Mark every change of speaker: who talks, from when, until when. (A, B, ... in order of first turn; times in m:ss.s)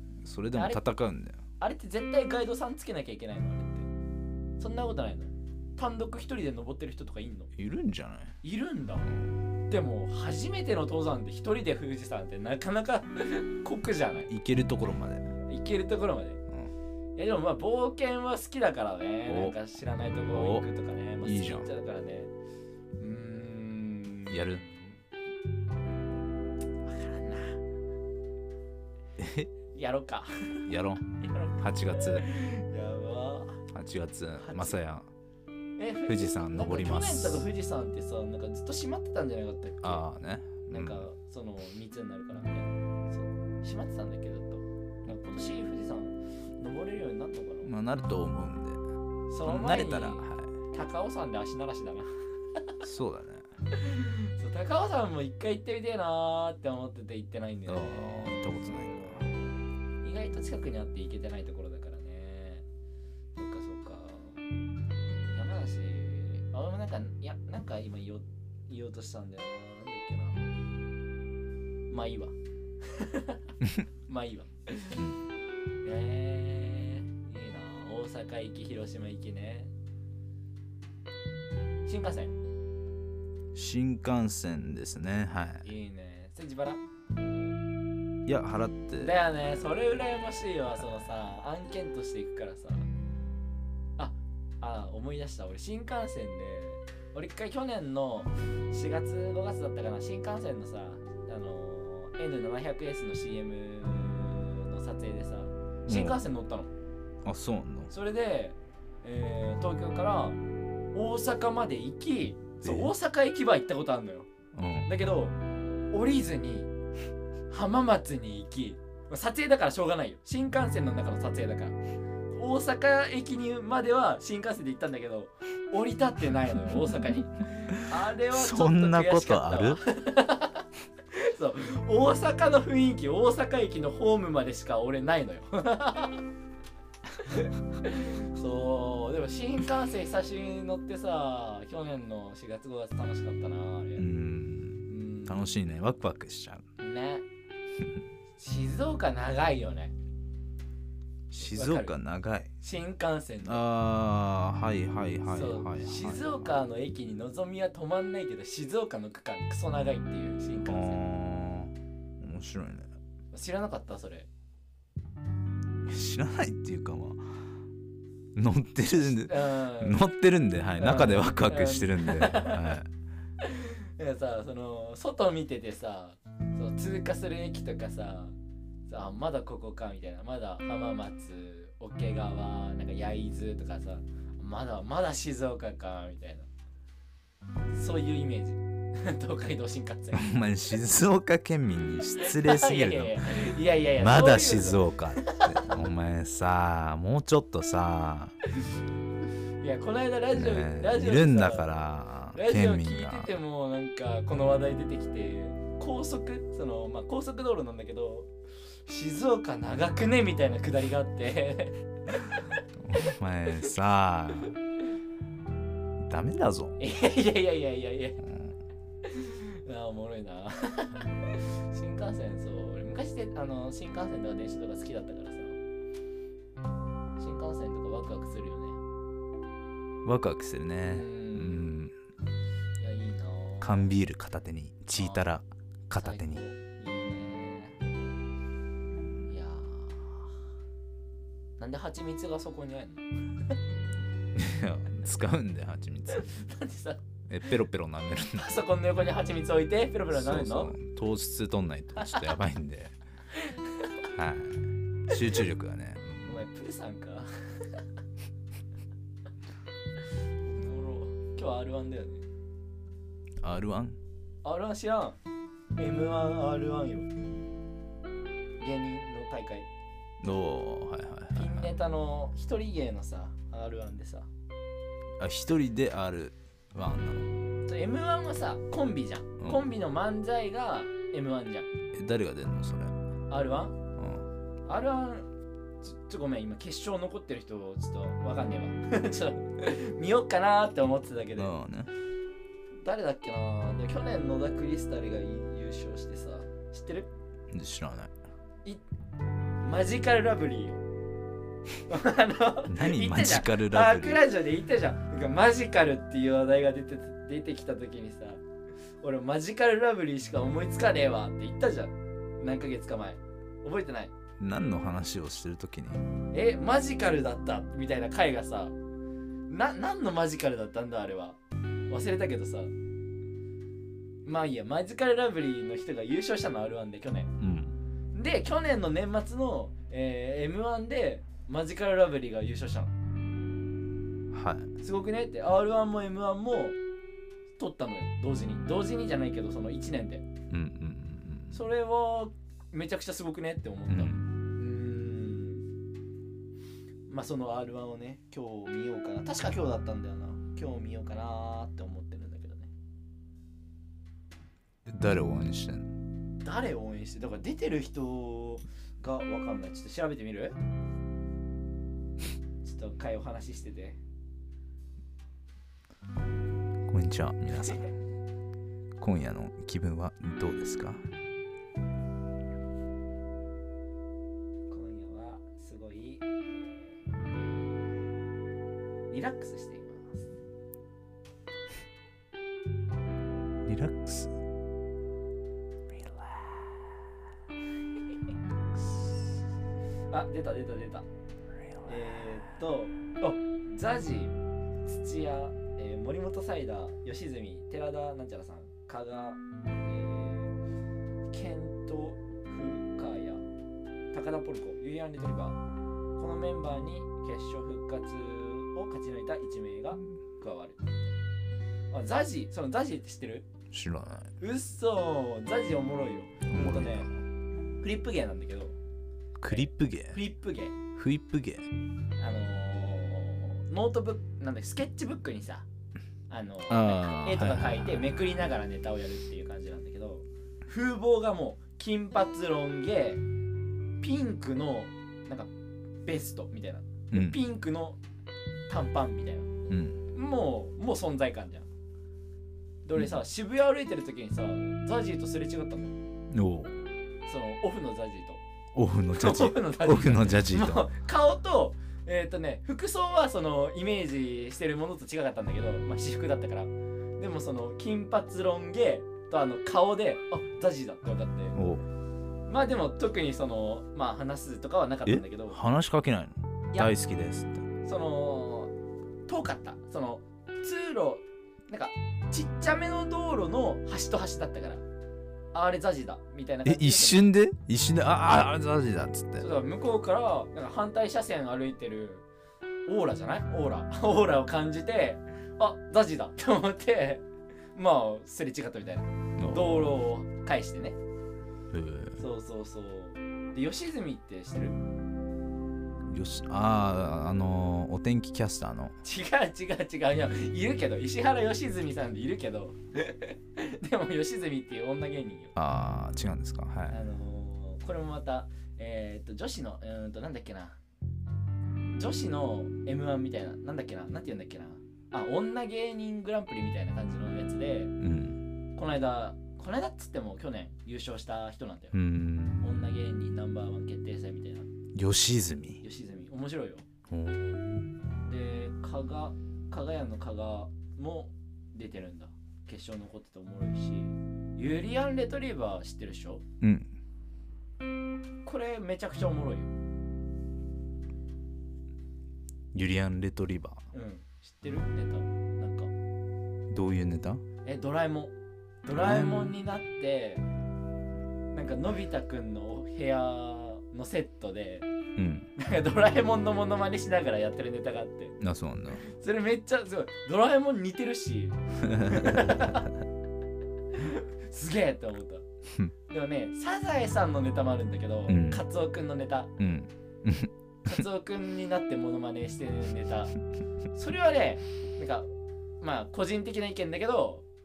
0:00.2-0:01.4 A
0:00.5-0:00.8 B
0:01.6-0:03.9 B
0:04.6-0:07.5 B
0:07.6-0:08.4 A
0:08.4-0:09.2 B
0:09.7-0:14.3 B
0:14.3-0:15.3 A
0:15.4-0:16.4 B
0:17.2-0:22.3 B
0:19.3-0:19.6 A
0:20.3-0:20.6 A
0:21.2-0:21.7 A
0:23.0-0:25.0 B
0:24.3-0:24.6 A
0:26.8-0:27.6 B
0:29.2-0:29.5 A
0:29.7-0:33.6 B
0:30.6-0:32.2 A
0:33.7-0:35.1 A
0:34.4-0:34.8 B
0:35.8-0:40.0 B
0:36.0-0:37.5 A
0:39.8-0:41.0 A
0:40.7-0:47.7 B
0:47.6-0:48.8 A
0:49.3-0:52.1 B
0:49.4-0:50.5 A
0:52.8-0:53.5 A
0:53.7-1:02.6 B
0:57.7-0:59.2 A
1:03.4-1:04.4 B
1:05.3-1:10.5 B
1:11.9-1:13.5 B
1:14.1-1:15.0 B
1:14.9-1:15.2 A
1:15.8-1:19.7 B
1:21.8-1:22.3 B
1:23.5-1:25.7 A
1:25.6-1:26.8 B
1:28.2-1:31.1 A
1:29.0-1:32.9 B
1:34.0-1:46.7 B
1:45.9-1:46.2 A
1:47.2-1:47.9 A
1:47.9-1:50.4 B
1:50.9-1:54.3 B
1:52.6-1:52.9 A
1:54.5-1:54.9 A
1:54.8-1:55.4 B
1:55.9-1:56.7 B
1:57.5-2:01.8 B
2:02.3-2:16.2 B
2:08.3-2:09.8 A
2:17.2-2:24.0 B
2:24.0-2:26.6 A
2:24.9-2:25.5 B
2:26.8-2:27.2 B
2:28.4-2:29.9 B
2:31.3-2:32.5 A
2:31.4-2:31.9 B
2:32.6-2:33.6 B
2:33.4-2:36.5 A
2:35.3-2:41.0 B
2:40.6-2:42.9 A
2:43.3-2:44.3 B
2:45.8-2:47.3 A
2:48.3-2:52.9 A
2:49.0-2:50.0 B
2:50.8-2:52.7 B
2:53.4-2:58.4 B
2:58.9-3:06.5 B
3:07.7-3:10.3 B
3:10.1-3:18.3 A
3:12.2-3:15.6 B
3:19.6-3:21.7 B
3:20.3-3:23.3 A
3:22.3-3:28.3 B
3:28.8-3:32.6 B
3:32.8-3:34.6 A
3:36.0-3:36.8 A
3:36.8-3:38.2 B
3:38.2-3:38.5 A
3:39.0-3:45.6 B
3:47.2-3:48.8 B
3:50.0-3:51.9 A
3:50.8-3:51.7 B
3:52.8-3:53.9 B
3:53.6-3:56.4 A
3:55.0-3:55.3 B
3:56.0-3:57.8 B
3:59.3-4:00.3 B
4:01.6-4:03.5 B
4:04.3-4:06.3 A
4:06.1-4:07.5 B
4:07.3-4:08.6 A
4:08.3-4:10.7 B
4:10.1-4:13.0 A
4:13.3-4:14.0 B
4:14.1-4:16.4 A
4:16.2-4:17.8 B
4:20.4-4:22.2 B
4:23.4-4:24.0 A
4:24.4-4:25.2 B
4:25.8-4:27.1 B
4:28.6-4:29.7 B
4:30.2-4:31.7 A
4:31.3-4:34.3 B
4:35.2-4:37.3 A
4:37.6-4:41.7 B
4:41.9-4:43.0 A
4:43.3-4:43.8 B
4:44.0-4:44.2 A
4:44.6-4:45.3 B
4:45.8-4:51.6 B
4:51.4-4:51.9 A
4:52.8-4:57.1 B
4:57.5-4:58.1 A
4:59.6-5:00.8 B
5:01.9-5:08.4 B
5:02.7-5:04.2 A
5:09.0-5:14.1 B
5:14.4-5:16.0 A
5:16.3-5:18.8 B
5:19.5-5:21.4 B
5:21.9-5:22.7 B
5:24.2-5:27.3 B
5:27.4-5:27.7 A
5:28.1-5:32.9 B
5:34.3-5:34.7 A
5:34.8-5:36.8 B
5:37.6-5:40.2 B
5:40.5-5:41.6 A
5:41.5-5:45.7 B
5:43.9-5:44.2 A
5:47.1-5:52.7 B
5:54.8-5:55.9 A
5:56.4-6:00.6 B
6:02.6-6:04.0 B
6:06.9-6:07.9 A
6:09.0-6:11.0 A
6:14.7-6:17.0 B
6:19.1-6:20.3 B
6:23.6-6:24.3 A
6:30.1-6:31.0 B
6:31.8-6:40.5 B
6:41.3-6:43.4 B
6:44.1-6:45.6 B
6:46.2-6:51.1 B
6:51.9-6:53.5 B
6:53.7-6:54.3 A
6:54.4-6:57.1 B
6:56.5-6:57.1 A
6:57.8-6:58.8 B
6:59.4-7:00.2 A
6:59.5-7:00.7 B
7:00.9-7:01.7 A
7:02.2-7:05.6 B
7:06.3-7:13.2 B
7:06.7-7:08.2 A
7:14.0-7:15.5 B
7:16.0-7:18.0 B
7:17.1-7:17.4 A
7:18.7-7:19.5 B
7:19.7-7:20.0 A
7:20.1-7:21.7 B
7:22.8-7:25.9 B
7:26.3-7:26.8 A
7:27.2-7:28.4 B
7:28.7-7:30.8 A
7:29.1-7:41.6 B
7:41.5-7:41.8 A
7:42.5-7:45.6 B
7:45.0-7:47.6 A
7:47.8-7:48.7 B
7:49.3-7:54.8 B
7:55.5-7:57.2 B
7:56.6-7:59.4 A
7:59.4-8:02.2 B
8:02.9-8:11.0 B
8:09.4-8:09.9 A
8:11.7-8:12.2 A
8:12.2-8:14.8 B
8:16.0-8:18.9 A
8:19.0-8:25.5 B
8:25.6-8:27.0 A
8:26.9-8:30.8 B
8:31.9-8:37.9 B
8:38.0-8:38.4 A
8:38.8-8:42.0 B
8:41.9-8:42.8 A
8:42.6-8:44.7 B
8:44.9-8:45.8 A
8:45.8-8:46.8 B
8:47.1-8:47.9 A
8:48.2-8:56.4 B
8:56.6-8:56.9 A
8:58.4-8:59.7 B
9:02.7-9:03.8 A
9:03.9-9:05.9 B
9:06.7-9:07.4 A
9:07.6-9:10.4 B
9:08.9-9:09.6 A
9:11.5-9:14.9 B
9:15.2-9:15.5 A
9:15.6-9:18.4 B
9:18.4-9:19.0 A
9:19.0-9:22.9 B
9:21.8-9:22.7 A
9:23.9-9:25.4 B
9:26.1-9:29.5 B
9:28.3-9:28.6 A
9:29.6-9:31.0 A
9:30.8-9:33.3 B
9:33.9-9:35.3 B
9:35.8-9:37.4 B